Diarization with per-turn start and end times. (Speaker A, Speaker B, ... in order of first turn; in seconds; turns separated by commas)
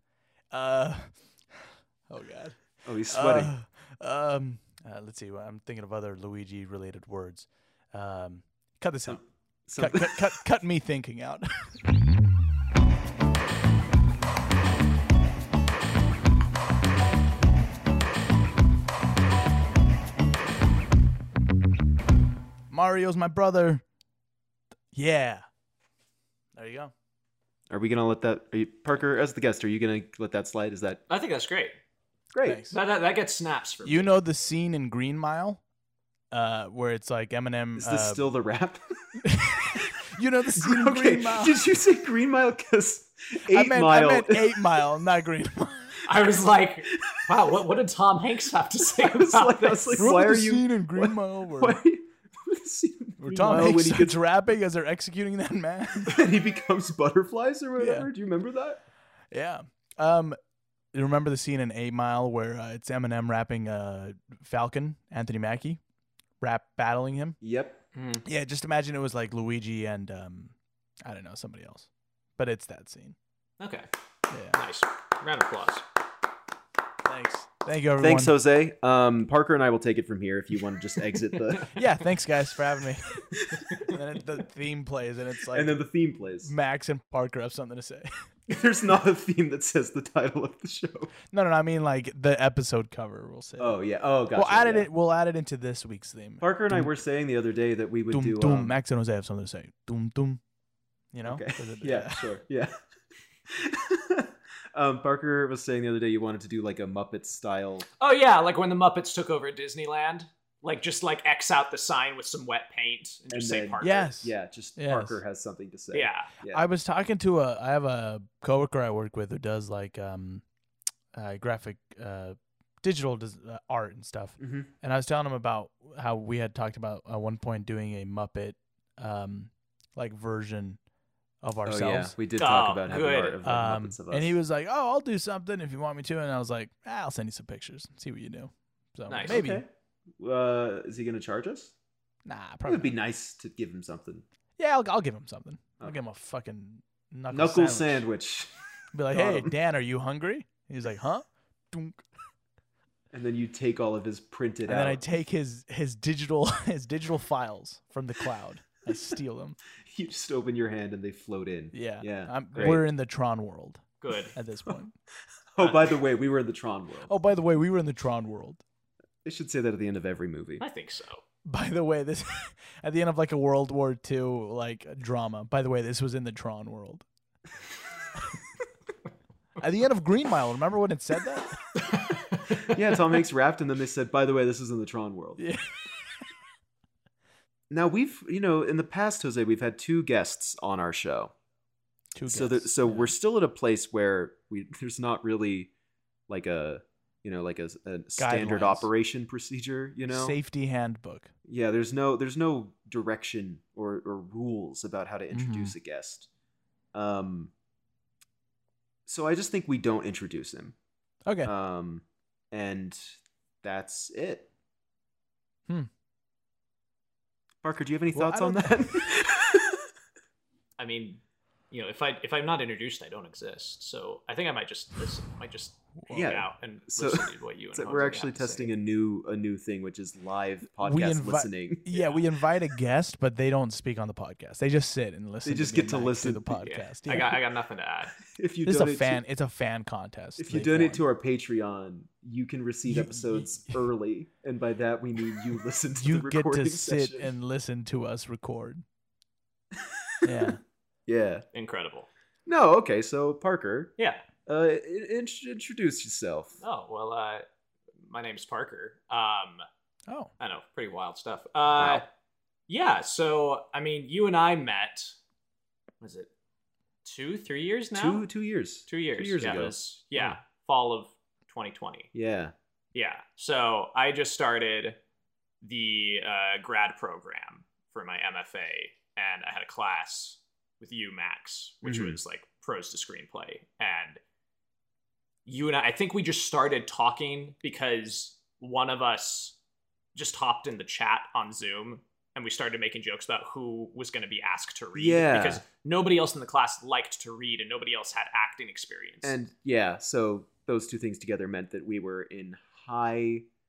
Speaker A: 0.5-9.2, Speaker B: 2.8-3.5, Speaker B: 9.1-10.3, Speaker A: 9.8-11.8, Speaker A: 22.7-23.8, Speaker A: 24.9-25.4, Speaker A: 26.5-26.9, Speaker B: 27.7-31.0, Speaker C: 31.1-31.8, Speaker B: 32.3-32.6, Speaker A: 32.4-32.8, Speaker C: 32.7-34.1, Speaker A: 33.8-35.6, Speaker A: 36.3-38.2, Speaker B: 37.8-38.8, Speaker A: 39.2-41.6, Speaker B: 40.5-44.6, Speaker A: 43.5-46.0, Speaker C: 46.1-50.0, Speaker B: 48.9-54.2, Speaker A: 50.0-51.8, Speaker A: 53.2-56.2, Speaker B: 56.1-58.8, Speaker A: 57.8-58.1, Speaker A: 59.3-60.4, Speaker A: 60.9-65.8, Speaker A: 66.4-67.4, Speaker B: 67.4-67.8, Speaker C: 67.9-68.2, Speaker A: 68.2-73.2, Speaker C: 73.6-73.9, Speaker A: 74.3-74.6, Speaker C: 74.6-75.8, Speaker A: 77.0-78.3, Speaker B: 78.0-81.7, Speaker A: 81.7-85.8, Speaker B: 85.5-86.5, Speaker A: 86.4-88.1, Speaker B: 88.5-91.1, Speaker A: 91.3-93.8, Speaker B: 93.6-94.9, Speaker A: 94.3-96.9, Speaker B: 96.4-98.8, Speaker A: 98.1-100.4, Speaker A: 101.1-102.2, Speaker B: 101.2-102.7, Speaker B: 103.5-107.8, Speaker C: 108.0-114.1, Speaker B: 113.3-116.7, Speaker A: 113.8-115.2, Speaker C: 115.9-116.3, Speaker A: 116.5-120.4, Speaker A: 121.1-130.8, Speaker B: 124.4-124.7, Speaker A: 131.4-132.2, Speaker B: 131.7-134.4, Speaker C: 132.4-133.4, Speaker A: 133.4-139.6, Speaker C: 139.1-139.4, Speaker B: 139.2-139.7, Speaker B: 140.2-141.7, Speaker A: 142.2-142.9, Speaker B: 142.7-144.2, Speaker A: 144.6-148.0, Speaker B: 147.3-148.5, Speaker A: 148.9-152.0, Speaker B: 149.1-149.5, Speaker B: 153.1-155.0, Speaker A: 154.7-159.6, Speaker B: 159.9-162.8, Speaker A: 161.7-164.9, Speaker C: 164.0-164.3, Speaker B: 165.5-167.1, Speaker A: 167.1-168.6, Speaker B: 169.2-170.6, Speaker C: 170.6-171.2, Speaker A: 171.5-177.0, Speaker A: 179.6-181.6, Speaker B: 182.5-185.4, Speaker A: 185.4-185.7, Speaker B: 187.7-191.3, Speaker A: 192.2-193.1, Speaker B: 192.3-195.7, Speaker B: 196.3-200.3, Speaker A: 198.2-198.9, Speaker A: 200.1-201.3, Speaker B: 201.5-206.3, Speaker A: 205.3-205.7, Speaker B: 206.9-207.5, Speaker B: 209.1-210.7, Speaker A: 211.2-211.5, Speaker B: 211.4-214.5, Speaker B: 217.6-219.8, Speaker A: 218.1-218.7, Speaker C: 220.8-228.7, Speaker A: 226.0-226.3, Speaker B: 226.1-231.8, Speaker A: 230.8-237.4, Speaker C: 231.9-232.2, Speaker B: 235.4-236.5, Speaker C: 236.6-238.2, Speaker B: 238.3-239.2, Speaker A: 238.7-241.0, Speaker B: 240.4-247.3, Speaker A: 242.9-243.8, Speaker A: 246.0-248.8, Speaker A: 250.2-250.6, Speaker B: 250.2-250.5, Speaker B: 251.1-251.4, Speaker C: 251.5-252.1, Speaker B: 252.5-253.9, Speaker C: 254.0-254.2, Speaker B: 254.5-256.6, Speaker C: 256.6-257.5, Speaker C: 258.0-259.6, Speaker C: 260.4-262.0, Speaker B: 261.8-262.0, Speaker C: 262.7-265.1, Speaker C: 266.0-266.3, Speaker C: 267.0-268.3, Speaker B: 267.9-269.8, Speaker C: 268.9-272.1, Speaker B: 272.1-272.5, Speaker C: 272.9-275.0, Speaker C: 275.6-284.2, Speaker B: 281.8-282.2, Speaker C: 285.5-289.6, Speaker C: 290.1-299.4, Speaker B: 294.9-295.6, Speaker B: 299.2-303.5